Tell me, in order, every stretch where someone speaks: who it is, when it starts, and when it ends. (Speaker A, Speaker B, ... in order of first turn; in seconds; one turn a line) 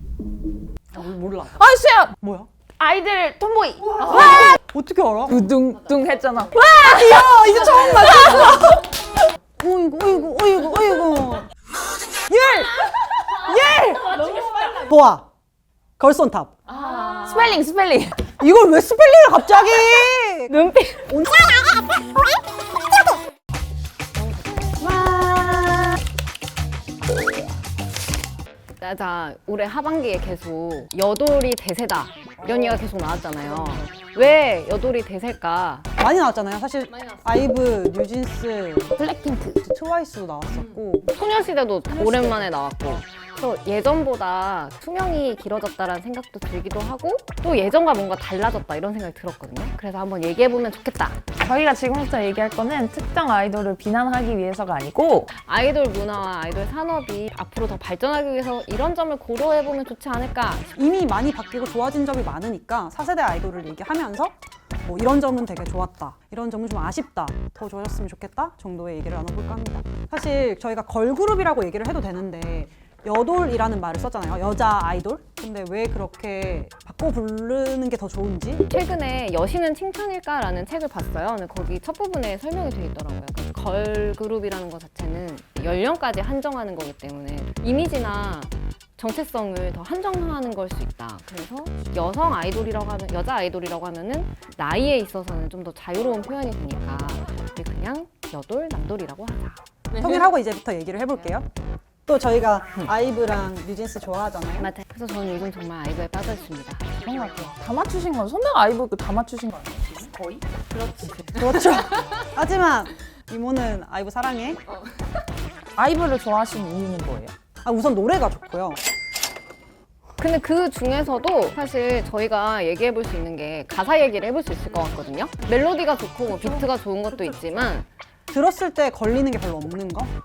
Speaker A: 0.9-1.6
Speaker B: 1.6-2.1
Speaker A: 2.2-2.5
Speaker B: 2.8-4.5
Speaker A: 4.0-5.4
Speaker B: 5.3-7.2
Speaker A: 6.5-8.8
Speaker A: 9.6-11.5
Speaker A: 12.3-15.2
Speaker A: 16.0-16.5
Speaker B: 16.7-18.3
Speaker A: 18.4-21.5
Speaker C: 20.5-21.6
Speaker A: 24.7-26.0
Speaker C: 28.8-35.9
Speaker A: 32.4-32.8
Speaker A: 33.4-33.9
Speaker A: 36.0-38.9
Speaker B: 38.9-39.6
Speaker A: 39.6-41.1
Speaker C: 41.1-51.2
Speaker A: 41.9-43.0
Speaker B: 51.4-55.3
Speaker C: 55.3-60.7
Speaker A: 60.8-78.6
Speaker C: 78.7-99.6
Speaker A: 100.0-101.5
Speaker A: 102.1-104.7
Speaker C: 104.6-107.0
Speaker B: 107.0-110.4
Speaker A: 110.7-114.6
Speaker B: 115.8-117.3
Speaker A: 117.6-118.8
Speaker C: 120.2-127.9
Speaker A: 128.3-130.1